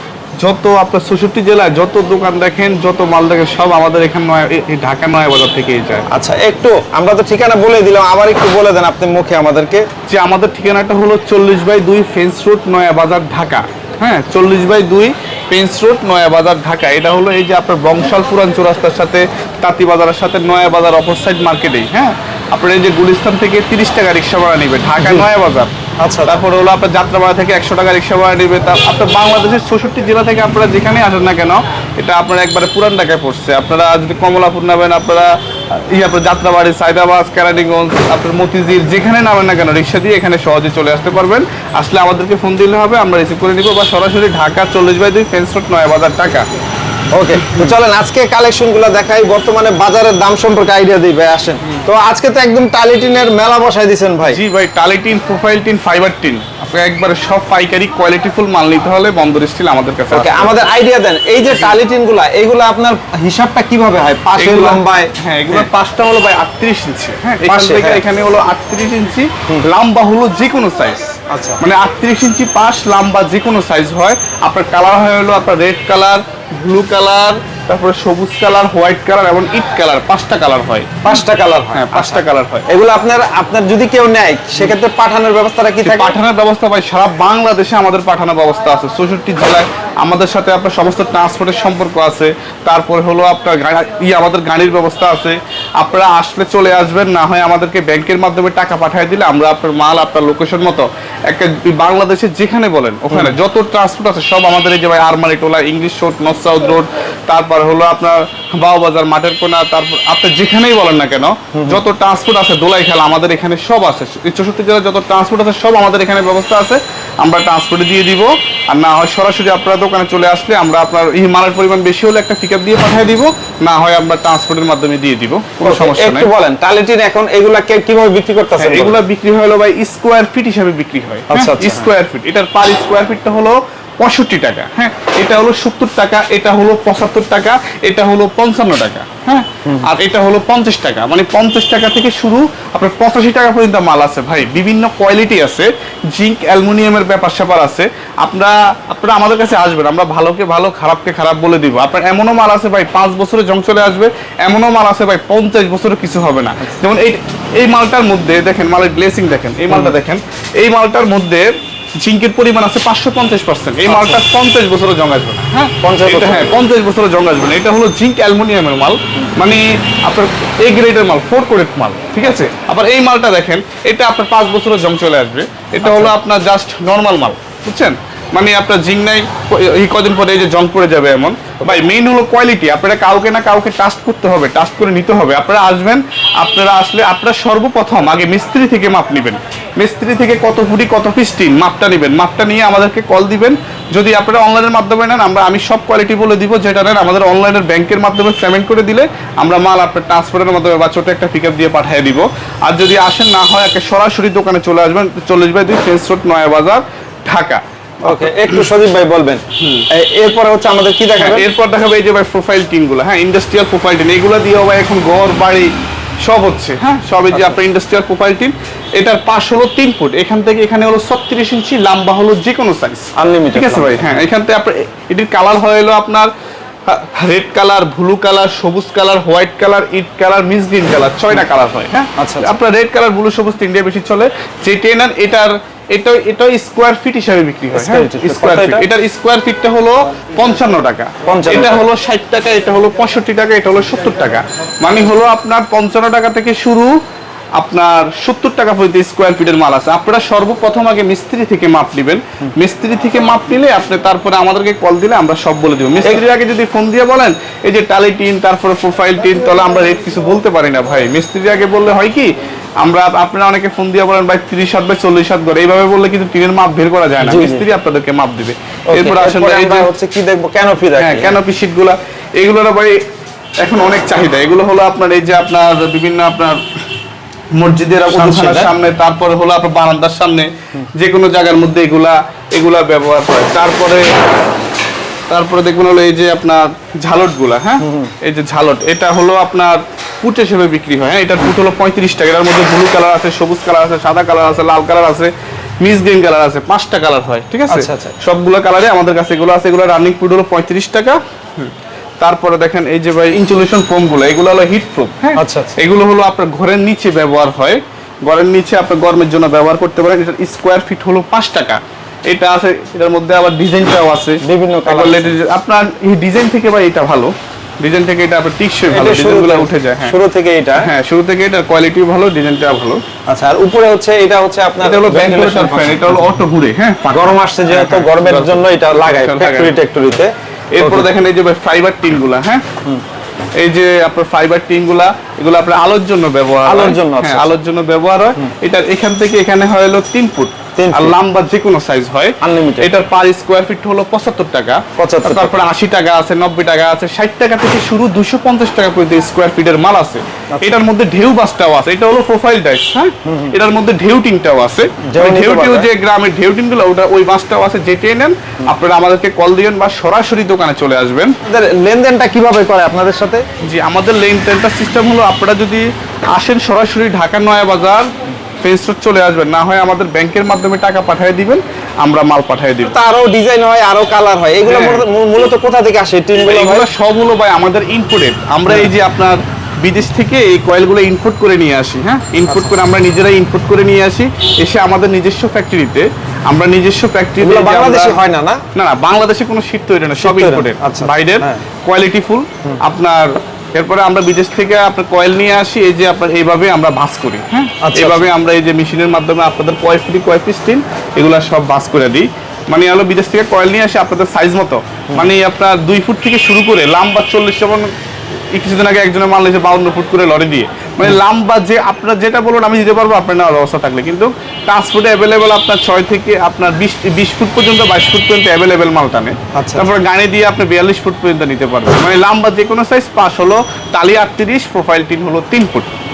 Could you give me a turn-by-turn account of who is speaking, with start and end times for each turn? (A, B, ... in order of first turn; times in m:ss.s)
0:00.4-0:06.0 A
0:06.1-0:09.9 B
0:10.1-0:25.7 A
0:25.0-0:25.3 B
0:26.0-0:26.4 B
0:26.2-0:46.5 A
0:47.1-0:54.4 B
0:47.4-0:47.7 A
0:54.3-1:00.5 A
1:00.1-1:05.7 B
1:01.5-1:01.8 A
1:04.4-1:21.2 A
1:07.4-1:08.0 B
1:11.3-1:11.6 B
1:21.0-1:26.1 B
1:21.7-1:22.7 A
1:25.8-2:06.3 A
1:51.5-1:51.8 B
2:05.6-2:09.0 B
2:08.6-3:28.7 A
2:11.3-2:11.9 B
2:43.9-2:44.2 B
2:45.8-2:46.5 B
2:55.8-2:56.1 B
3:28.0-3:31.5 B
3:29.6-3:29.9 A
3:31.2-3:35.7 A
3:36.2-3:46.3 A
3:37.3-3:37.6 B
3:43.2-3:44.2 B
3:46.9-4:07.0 A
3:52.2-3:52.5 B
3:57.8-3:58.8 B
4:01.3-4:01.8 B
4:07.6-4:22.3 A
4:22.8-4:29.9 A
4:27.2-4:27.7 B
4:28.9-4:31.4 B
4:31.0-4:33.0 A
4:33.6-4:36.7 A
4:37.5-4:44.1 A
4:38.1-4:38.7 B
4:45.3-5:20.2 A
4:47.8-4:48.1 B
4:57.7-4:58.1 B
5:05.4-5:05.8 B
5:14.4-5:15.3 B
5:18.9-5:20.9 B
5:20.8-5:23.0 A
5:23.3-5:26.0 B
5:24.8-5:29.7 A
5:27.1-5:31.1 B
5:30.7-5:32.7 A
5:33.6-6:01.4 A
5:36.7-5:37.5 B
5:40.8-5:41.2 B
5:42.4-5:42.9 B
5:45.0-5:45.5 B
5:53.3-5:53.5 B
5:55.1-5:55.9 B
6:01.5-6:03.4 B
6:03.6-6:13.0 A
6:12.9-6:16.9 B
6:14.7-6:15.1 A
6:16.4-6:28.2 A
6:27.4-6:28.6 B
6:28.8-6:47.9 A
6:30.2-6:31.6 B
6:37.8-6:38.3 B
6:48.5-7:05.9 A
6:59.6-6:59.9 B